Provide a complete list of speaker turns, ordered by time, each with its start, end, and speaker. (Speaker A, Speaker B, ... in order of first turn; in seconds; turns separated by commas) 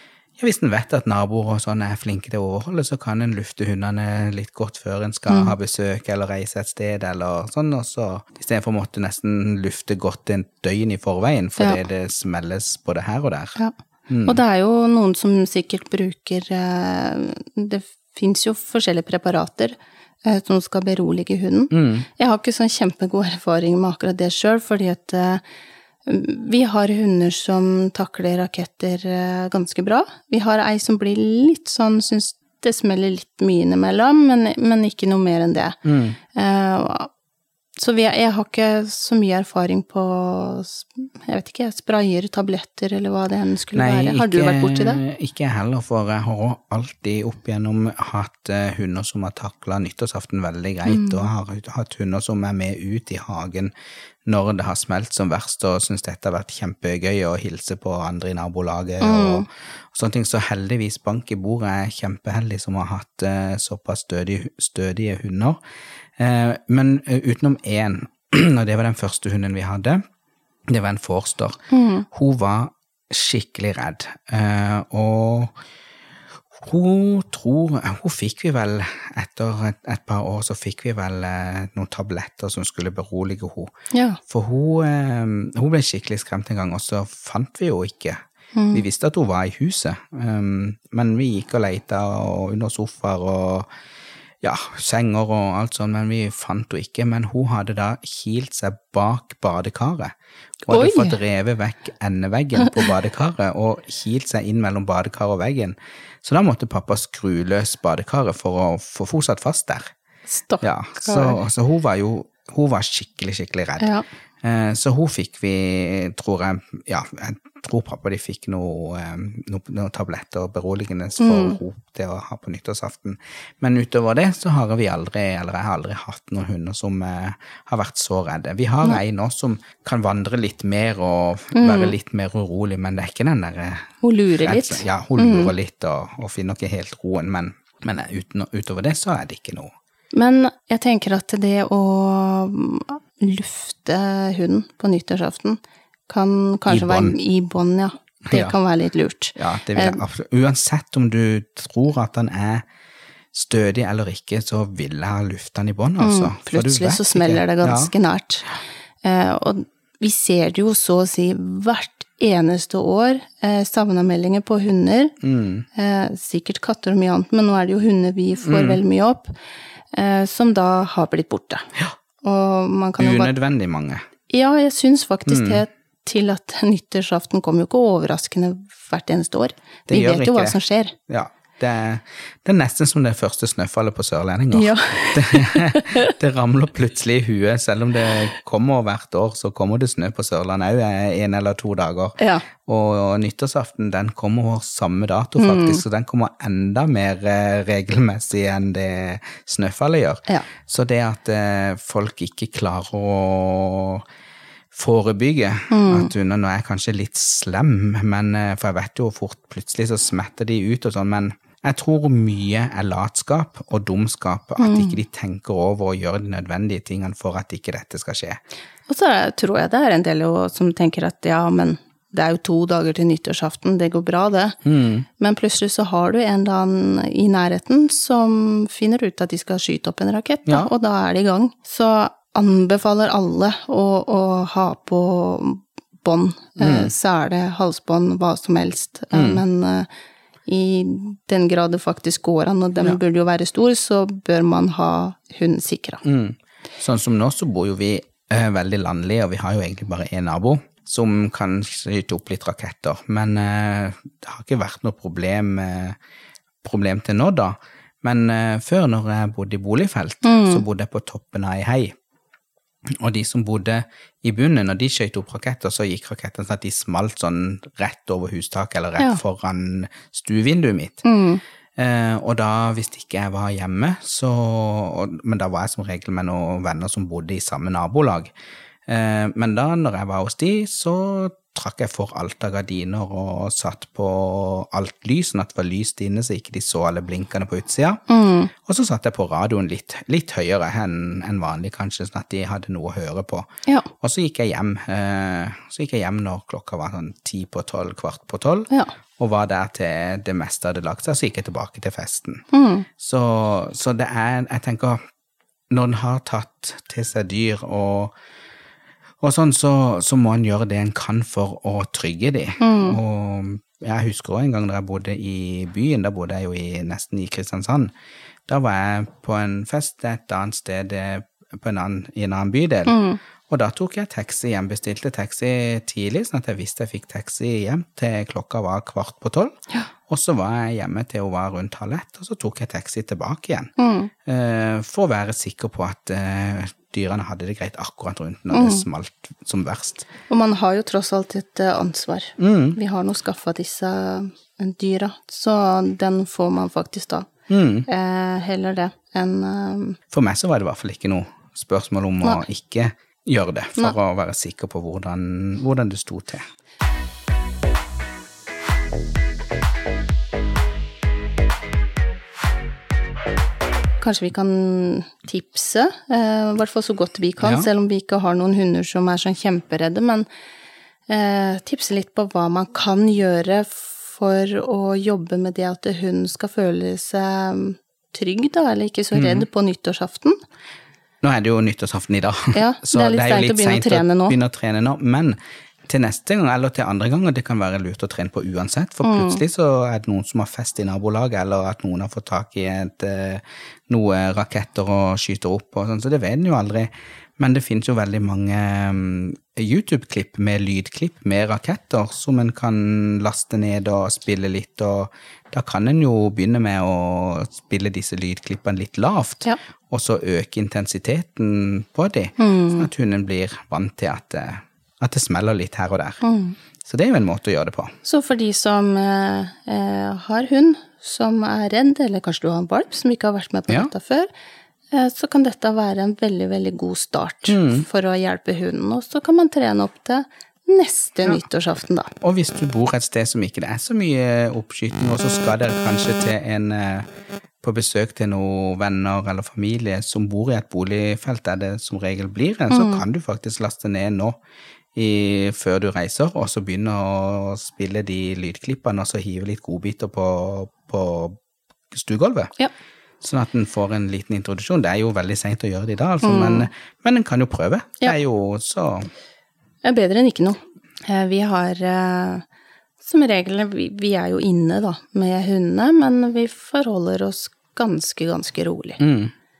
Speaker A: 0.4-13.6, Speaker B: 5.3-5.5, Speaker A: 14.1-14.4, Speaker B: 14.2-25.4, Speaker A: 21.7-22.1, Speaker B: 26.1-35.8, Speaker A: 35.8-36.2, Speaker B: 36.3-37.1, Speaker B: 37.8-45.0, Speaker A: 43.8-53.7, Speaker B: 50.9-51.3, Speaker A: 54.3-65.6, Speaker B: 59.0-59.5, Speaker A: 66.2-70.0, Speaker A: 70.7-75.5, Speaker B: 71.7-72.1, Speaker A: 76.6-83.7, Speaker B: 83.9-84.2, Speaker A: 84.3-88.2, Speaker B: 88.5-88.8, Speaker A: 88.7-93.7, Speaker A: 94.4-100.1, Speaker A: 100.6-109.9, Speaker B: 100.7-101.2, Speaker B: 110.4-111.4, Speaker A: 110.6-113.9, Speaker B: 113.8-114.0, Speaker A: 114.4-139.7, Speaker B: 121.2-121.6, Speaker B: 131.6-131.9, Speaker B: 134.0-135.5, Speaker B: 140.1-150.0, Speaker A: 146.7-147.2, Speaker A: 148.3-148.6, Speaker A: 149.4-152.6, Speaker A: 153.3-157.9, Speaker B: 156.0-165.1, Speaker A: 165.2-165.7, Speaker B: 165.8-169.3, Speaker A: 168.4-168.8, Speaker B: 169.9-171.7, Speaker B: 172.2-173.3, Speaker A: 173.0-174.0, Speaker B: 174.3-180.9, Speaker A: 175.3-175.6, Speaker A: 179.9-180.6, Speaker A: 181.1-204.1, Speaker B: 184.5-186.1, Speaker B: 192.2-192.5, Speaker B: 195.4-195.8, Speaker A: 204.7-218.4, Speaker B: 205.7-206.1, Speaker B: 214.6-215.0, Speaker B: 218.9-224.6, Speaker A: 224.6-225.1, Speaker B: 225.2-239.9, Speaker A: 236.6-236.9, Speaker A: 239.1-239.4, Speaker B: 240.5-246.0, Speaker A: 246.0-256.0, Speaker A: 256.6-261.9, Speaker B: 260.2-260.6, Speaker A: 263.0-271.0, Speaker B: 271.0-271.4, Speaker A: 271.8-278.3, Speaker A: 278.9-288.0, Speaker B: 288.1-288.5, Speaker A: 288.6-293.5, Speaker A: 294.0-302.4, Speaker B: 302.5-302.9, Speaker A: 303.0-305.0, Speaker A: 305.7-308.1, Speaker A: 309.2-317.9, Speaker B: 312.6-313.0, Speaker A: 318.5-329.6, Speaker B: 322.9-323.2, Speaker A: 330.1-333.7, Speaker B: 333.8-334.1, Speaker A: 334.2-340.1, Speaker B: 338.5-338.9, Speaker B: 340.3-347.3, Speaker A: 342.4-342.8, Speaker A: 347.5-347.9, Speaker B: 347.9-350.0, Speaker A: 350.1-356.4, Speaker B: 364.0-370.3, Speaker A: 367.4-367.7, Speaker B: 371.1-380.4, Speaker A: 379.1-379.5, Speaker A: 381.2-416.2, Speaker B: 382.5-384.4, Speaker B: 389.0-389.4, Speaker B: 412.4-412.9, Speaker B: 416.2-416.6, Speaker A: 416.9-417.9, Speaker B: 418.0-424.3, Speaker B: 424.9-432.1, Speaker A: 427.5-427.9, Speaker A: 432.2-437.1, Speaker A: 437.6-444.4, Speaker B: 442.7-443.0, Speaker A: 445.0-451.4, Speaker A: 451.9-452.5, Speaker A: 453.2-459.1, Speaker B: 456.2-456.7, Speaker B: 459.8-462.4, Speaker B: 463.0-469.0, Speaker A: 469.0-469.3